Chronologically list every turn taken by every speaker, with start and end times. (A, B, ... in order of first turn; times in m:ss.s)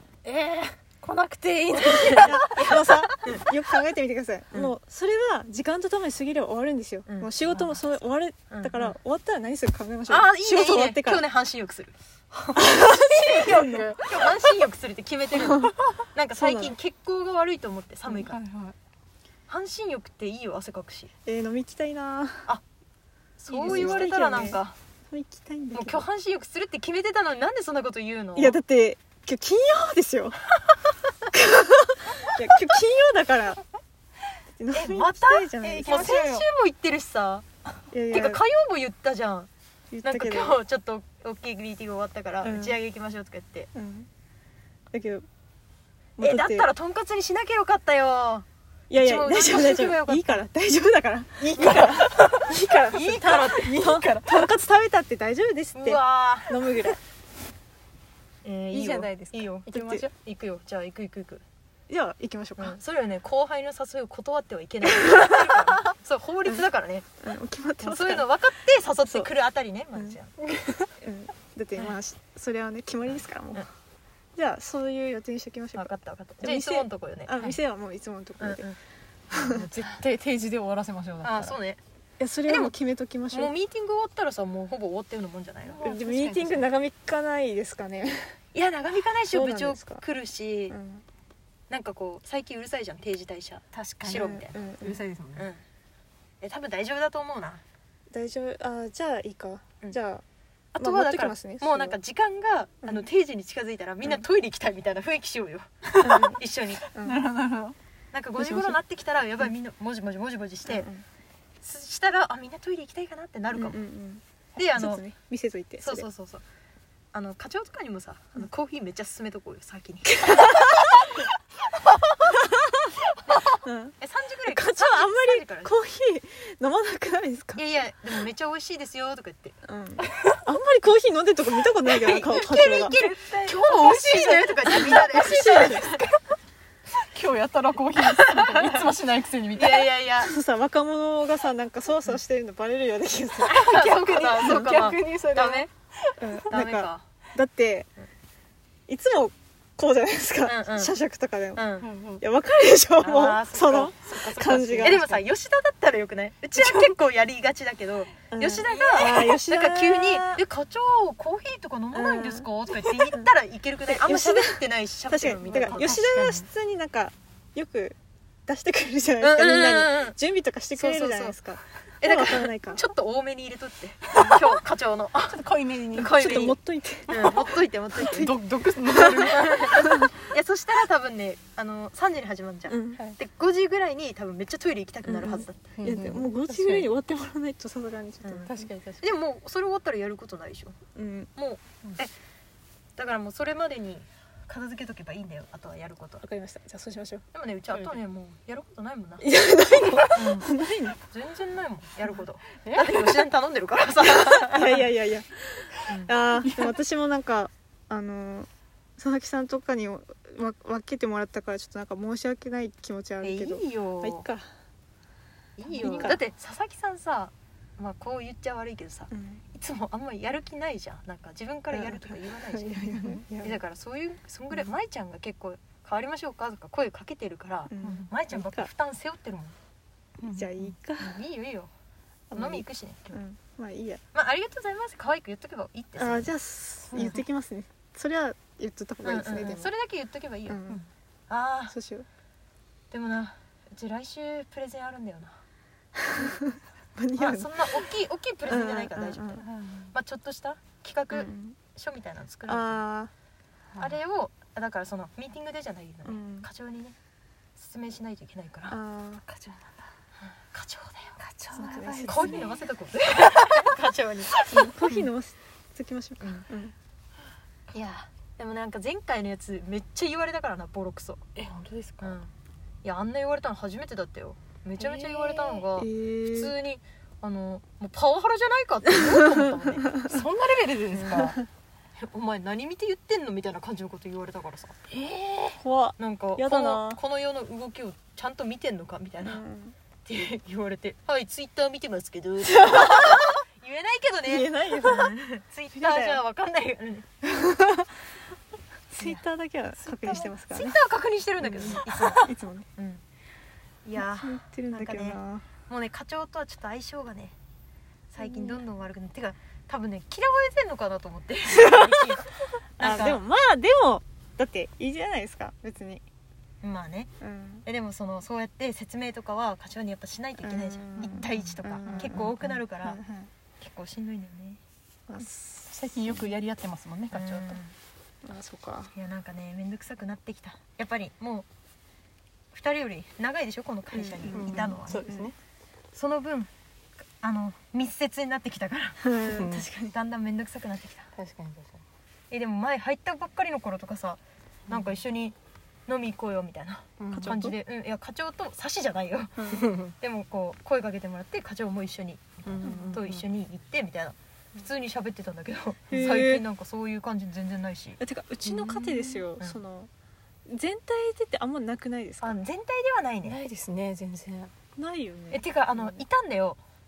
0:00.2-0:03.1 A
0:01.9-0:03.4 B
0:02.1-0:11.2 C
0:07.1-0:07.8 B
0:08.5-0:08.9 B
0:10.1-0:11.9 B
0:12.3-0:13.9 C
0:12.6-0:14.6 A
0:13.1-0:18.4 B
0:15.4-0:15.7 C
0:16.3-0:16.8 C
0:18.1-0:18.8 A
0:19.5-0:21.1 B
0:21.2-0:22.5 C
0:23.4-0:24.8 B
0:23.5-0:26.0 C
0:23.6-0:24.1 A
0:25.7-0:28.6 B
0:28.3-0:30.4 C
0:31.3-0:33.6 C
0:34.6-0:36.1 C
0:34.7-0:37.5 B
0:35.6-0:36.5 A
0:37.9-0:38.4 C
0:38.1-0:39.5 B
0:39.9-0:40.6 C
0:40.0-0:43.7 B
0:42.4-0:42.8 C
0:43.7-0:44.1 C
0:44.9-0:45.2 C
0:46.2-0:46.7 C
0:46.2-0:50.4 B
0:48.9-0:57.0 C
0:51.6-0:52.0 B
0:52.1-0:52.5 A
0:52.9-0:53.9 B
0:53.4-0:54.5 A
0:55.8-0:56.9 B
0:58.4-1:01.4 B
0:58.7-1:00.1 A
0:59.7-1:00.1 C
1:01.9-1:02.8 C
1:02.6-1:07.1 B
1:07.2-1:08.3 C
1:07.8-1:10.4 B
1:10.5-1:10.9 A
1:11.0-1:13.7 C
1:14.4-1:18.6 C
1:15.8-1:17.6 B
1:18.4-1:18.8 B
1:19.3-1:19.7 C
1:19.3-1:21.6 A
1:21.2-1:21.8 B
1:22.2-1:23.6 C
1:22.5-1:22.7 B
1:23.3-1:25.8 B
1:25.6-1:26.7 A
1:25.8-1:28.4 C
1:28.5-1:30.8 B
1:29.3-1:30.0 C
1:30.7-1:31.0 C
1:31.7-1:34.6 B
1:33.7-1:35.5 A
1:34.1-1:35.0 C
1:35.3-1:35.6 B
1:36.4-1:37.6 B
1:38.1-1:40.2 C
1:40.7-1:46.8 B
1:40.8-1:42.0 C
1:45.9-1:46.3 A
1:46.0-1:47.2 C
1:47.0-1:47.8 A
1:48.1-1:50.9 B
1:48.4-1:48.8 C
1:50.7-1:51.0 C
1:51.6-1:53.8 B
1:53.5-1:54.2 C
1:54.6-1:55.0 B
1:54.7-1:56.1 C
1:55.8-1:56.4 B
1:57.1-2:00.5 B
2:00.2-2:00.8 C
2:03.3-2:05.7 B
2:03.6-2:04.0 C
2:04.5-2:07.6 C
2:07.6-2:09.6 B
2:09.6-2:13.0 C
2:11.9-2:16.1 B
2:13.0-2:16.1 A
2:14.7-2:16.0 C
2:16.9-2:19.9 A
2:18.0-2:19.0 B
2:19.5-2:20.4 B
2:20.2-2:23.6 C
2:23.4-2:25.7 B
2:23.5-2:26.2 A
2:26.2-2:27.9 C
2:26.5-2:27.0 B
2:28.9-2:31.6 C
2:30.4-2:31.0 B
2:31.6-2:31.9 B
2:31.8-2:32.2 A
2:32.2-2:35.1 C
2:33.0-2:46.1 B
2:34.4-2:35.2 A
2:38.3-2:40.3 C
2:38.7-2:39.2 A
2:41.9-2:42.5 C
2:43.8-2:52.8 C
2:45.4-2:46.4 A
2:49.2-2:50.2 B
2:50.8-2:51.4 B
2:52.0-2:56.6 B
2:55.3-2:56.2 A
2:56.0-2:57.4 C
2:57.1-2:58.4 B
2:58.0-2:59.8 A
2:58.9-3:05.8 B
3:02.7-3:03.0 C
3:05.1-3:08.7 C
3:05.8-3:06.9 A
3:08.4-3:09.1 A
3:09.0-3:10.8 B
3:10.9-3:11.3 C
3:11.4-3:12.1 B
3:13.0-3:16.2 B
3:16.2-3:17.2 C
3:17.3-3:19.2 B
3:17.7-3:18.0 A
3:19.2-3:21.0 C
3:20.1-3:24.8 B
3:22.6-3:23.2 A
3:24.4-3:34.4 C
3:26.4-3:26.7 A
3:33.2-3:34.2 B
3:35.6-3:49.6 B
3:35.7-3:36.2 A
3:35.7-3:36.2 C
3:39.1-3:39.4 C
3:41.7-3:43.6 C
3:42.9-3:43.2 A
3:47.7-3:48.7 C
3:47.8-3:48.1 A
3:50.2-3:50.8 A
3:50.3-3:51.2 C
3:51.0-3:51.7 B
3:52.3-3:54.0 C
3:52.3-3:53.2 B
3:54.1-3:56.3 B
3:56.0-3:59.7 C
3:56.9-3:57.2 A
3:56.9-3:57.2 B
3:59.0-4:00.6 B
4:00.5-4:00.8 C
4:01.3-4:01.7 B
4:01.7-4:02.1 C
4:02.9-4:05.4 B
4:06.1-4:07.9 C
4:07.2-4:12.8 B
4:08.4-4:09.4 C
4:09.4-4:09.9 A
4:11.1-4:11.6 C
4:12.4-4:13.1 C
4:13.8-4:16.9 B
4:16.0-4:16.5 C
4:17.6-4:18.8 B
4:18.7-4:19.2 C
4:19.3-4:19.7 A
4:20.4-4:21.2 B
4:21.2-4:22.6 A
4:21.5-4:22.4 C
4:22.0-4:25.1 B
4:24.5-4:26.7 C
4:26.2-4:26.4 B
4:27.7-4:31.3 B
4:31.4-4:32.2 A
4:32.0-4:32.3 B
4:32.8-4:39.9 B
4:34.8-4:35.6 A
4:35.8-4:36.5 C
4:40.1-4:41.4 A
4:40.9-4:41.4 B
4:42.0-4:44.8 B
4:44.9-4:45.6 A
4:45.6-4:47.0 C
4:46.0-4:49.4 B
4:49.2-4:49.8 C
4:50.1-4:57.1 B
4:52.5-4:53.2 C
4:54.2-4:55.1 C
4:55.8-4:56.2 C
4:57.2-4:57.9 C
4:58.9-5:00.8 C
4:59.8-5:03.0 B
5:01.4-5:02.7 C
5:03.8-5:07.4 B
5:04.0-5:05.4 C
5:08.1-5:13.2 B
5:08.2-5:08.6 C
5:11.6-5:12.0 C
5:12.8-5:16.0 C
5:16.6-5:17.1 B
5:17.2-5:17.7 C
5:17.6-5:23.0 B
5:20.4-5:23.3 C
5:21.0-5:22.3 A
5:23.6-5:24.6 B
5:25.1-5:26.2 C
5:25.7-5:27.6 A
5:27.1-5:27.8 B
5:28.2-5:28.9 C
5:28.9-5:31.4 B
5:32.5-5:35.0 B
5:33.9-5:35.3 C
5:34.3-5:35.3 A
5:35.9-5:36.5 B
5:37.2-5:39.2 B
5:39.0-5:39.9 C
5:39.3-5:39.7 A
5:39.9-5:41.1 B
5:41.2-5:41.8 A
5:42.3-5:45.4 B
5:45.9-5:59.6 B
5:47.0-5:47.4 A
5:47.1-5:47.6 C
5:49.4-5:49.7 C
5:49.5-5:49.9 A
5:52.4-5:53.2 A
5:52.6-5:53.0 C
5:55.9-5:56.4 C
5:58.0-5:59.9 C
6:00.5-6:02.4 C
6:02.2-6:03.4 B
6:03.2-6:04.5 A
6:04.8-6:06.0 C
6:05.3-6:06.6 B